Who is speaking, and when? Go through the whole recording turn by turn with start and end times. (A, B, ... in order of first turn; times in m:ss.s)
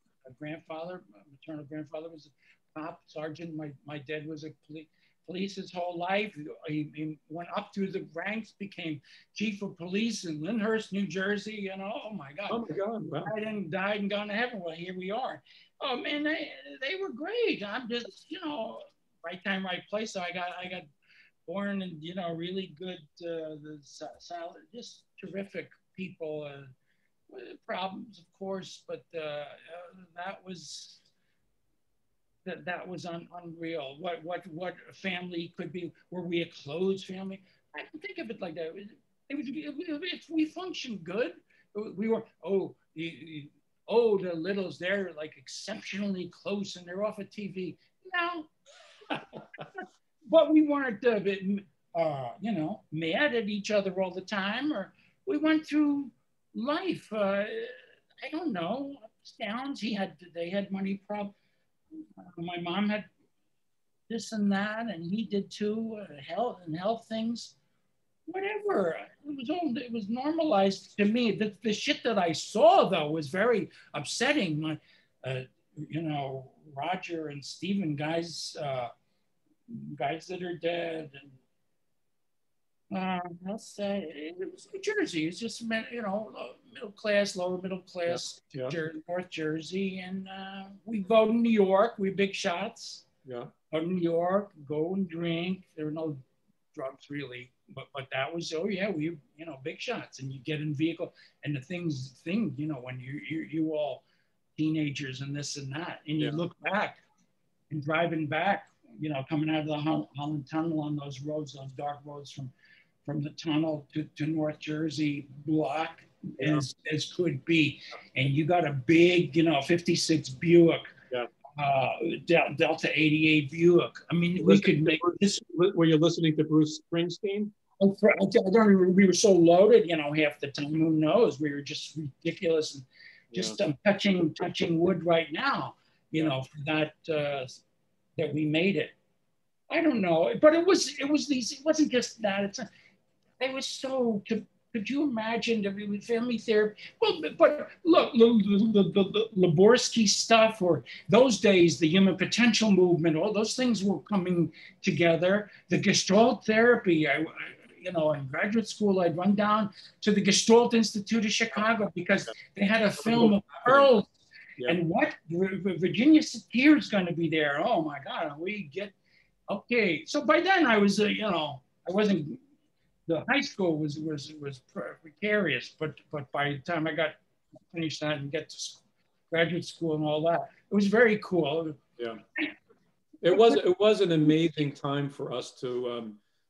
0:00.3-0:12.6 A
0:12.5-0:13.3 B
0:13.2-0:20.9 A
0:21.5-0:26.7 A
0:27.3-0:31.0 A
0:32.4-0:48.5 A
0:49.4-1:01.3 A
1:02.2-1:03.1 A
1:04.1-1:07.6 A
1:08.3-1:18.9 A
1:19.7-1:21.4 A
1:22.9-1:33.1 A
1:28.1-1:28.8 B
1:33.3-1:33.5 B
1:33.7-1:36.2 A
1:36.7-1:44.0 A
1:44.6-1:47.0 A
1:47.7-1:52.5 A
1:53.0-2:00.9 A
1:56.4-1:56.6 B
2:01.6-2:05.4 A
2:04.4-2:07.5 B
2:07.8-2:17.6 A
2:13.3-2:13.6 B
2:18.2-2:19.0 A
2:19.7-2:22.7 A
2:23.4-2:44.1 A
2:43.0-2:43.9 B
2:44.6-2:48.9 A
2:49.5-2:52.4 A
2:53.1-2:57.2 A
2:57.7-3:01.8 A
3:03.2-3:06.2 B
3:03.3-3:03.6 A